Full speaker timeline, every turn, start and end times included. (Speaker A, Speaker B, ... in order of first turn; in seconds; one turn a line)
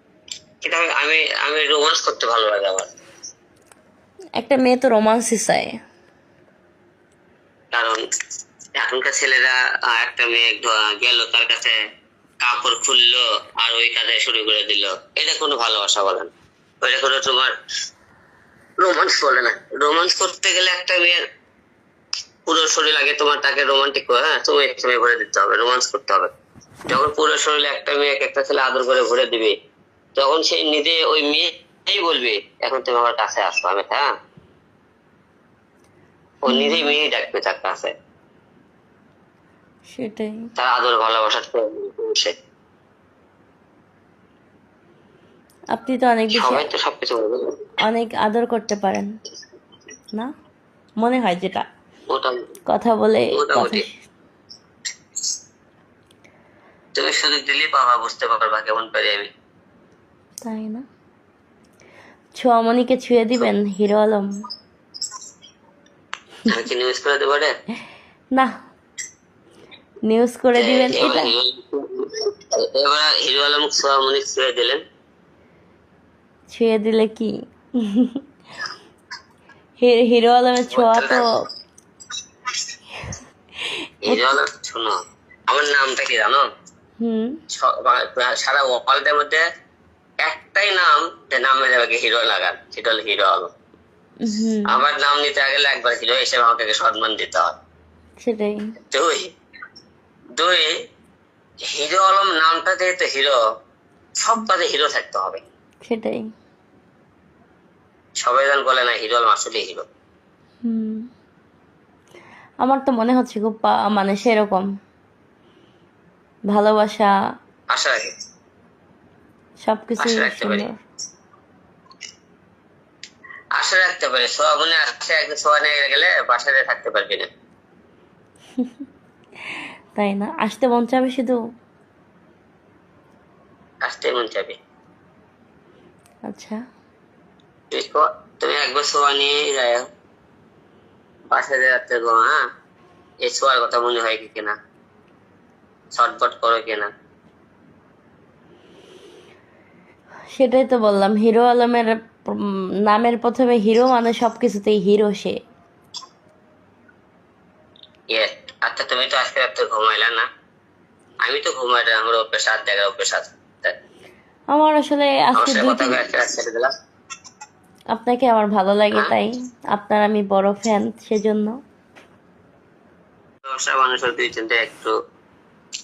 Speaker A: 0.6-2.9
Speaker B: 4.4-5.7
Speaker A: 7.7-8.0
Speaker A: 8.8-11.8
Speaker A: 12.4-16.3
Speaker A: 16.8-17.5
Speaker A: 18.8-21.2
Speaker A: 22.5-26.3
Speaker A: 26.9-29.5
Speaker A: 30.2-34.1
Speaker A: 36.4-37.9
Speaker B: 36.5-36.9
Speaker B: 39.9-40.3
Speaker A: 40.5-42.3
Speaker B: 45.7-46.6
Speaker A: 46.4-47.5
Speaker B: 47.8-49.1
Speaker B: 51.0-51.6
Speaker A: 52.1-52.4
Speaker B: 52.7-53.9
Speaker A: 53.3-53.8
Speaker A: 57.0-59.3
Speaker B: 60.4-60.8
Speaker B: 62.4-64.3
Speaker A: 66.5-67.5
Speaker B: 70.1-71.3
Speaker A: 70.6-74.8
Speaker B: 76.5-77.3
Speaker B: 77.8-78.2
Speaker B: 79.8-81.2
Speaker A: 80.7-81.2
Speaker A: 84.0-84.9
Speaker A: 85.5-86.5
Speaker B: 87.0-87.3
Speaker A: 87.5-89.4
Speaker A: 90.2-93.5
Speaker B: 94.2-94.8
Speaker A: 94.7-97.5
Speaker B: 98.2-98.6
Speaker A: 98.9-99.3
Speaker A: 100.4-100.7
Speaker A: 101.7-103.4
Speaker A: 104.2-105.4
Speaker B: 105.8-106.2
Speaker A: 108.2-109.8
Speaker B: 110.6-111.0
Speaker B: 112.6-114.7
Speaker B: 116.5-117.1
Speaker A: 117.7-118.1
Speaker B: 119.6-120.7
Speaker A: 120.0-120.7
Speaker A: 123.5-127.3
Speaker B: 129.9-131.4
Speaker A: 133.8-134.6
Speaker B: 136.3-136.6
Speaker A: 137.7-139.8
Speaker A: 141.3-142.4
Speaker A: 143.2-144.5
Speaker A: 145.9-146.9
Speaker B: 150.3-155.3
Speaker A: 158.1-160.2
Speaker A: 161.2-163.7
Speaker B: 164.5-166.0
Speaker A: 165.3-166.7
Speaker B: 167.9-171.5
Speaker A: 173.5-174.9